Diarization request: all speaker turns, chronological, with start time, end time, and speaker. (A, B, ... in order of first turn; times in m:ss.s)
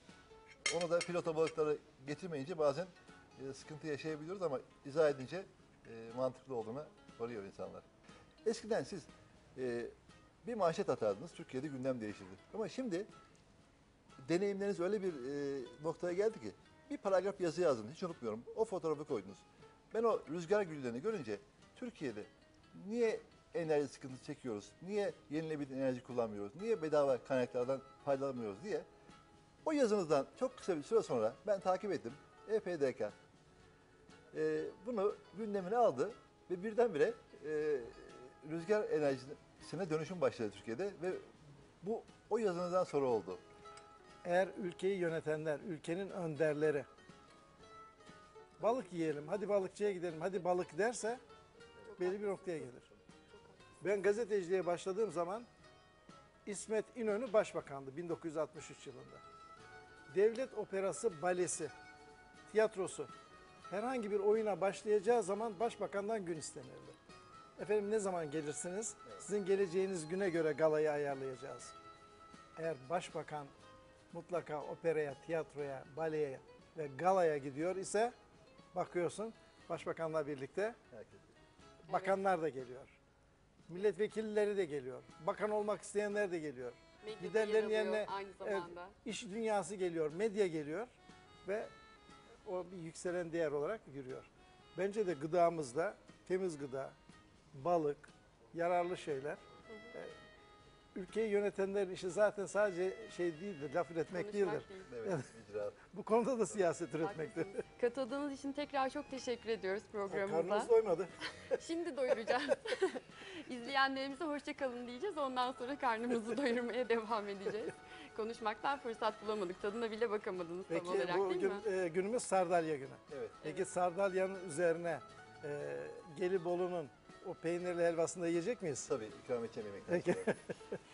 0:00.7-0:07.8 A
0:08.4-0:13.1 A
0:14.2-0:28.9 A
0:29.6-0:33.2 A
0:34.3-0:43.4 A
0:44.2-0:46.9 B
0:48.6-0:51.2 B
0:51.9-0:52.6 C
0:52.0-0:52.9 B
0:53.3-0:53.6 C
0:53.8-0:55.5 B
0:56.5-0:59.2 B
1:00.1-1:01.7 B
1:02.5-1:03.1 B
1:03.7-1:07.0 B
1:07.6-1:11.7 B
1:12.6-1:13.5 B
1:14.1-1:18.1 B
1:18.7-1:20.8 B
1:20.9-1:21.3 A
1:21.9-1:23.0 B
1:23.7-1:31.7 B
1:27.0-1:28.9 C
1:32.4-1:37.0 B
1:37.5-1:40.1 B
1:41.0-1:45.3 B
1:44.1-1:44.9 C
1:44.9-1:45.8 A
1:45.9-1:47.6 B
1:47.0-1:50.7 C
1:50.1-1:51.1 B
1:51.5-2:01.6 C
2:00.7-2:08.9 B
2:03.1-2:03.4 A
2:08.8-2:10.4 A
2:09.9-2:10.8 B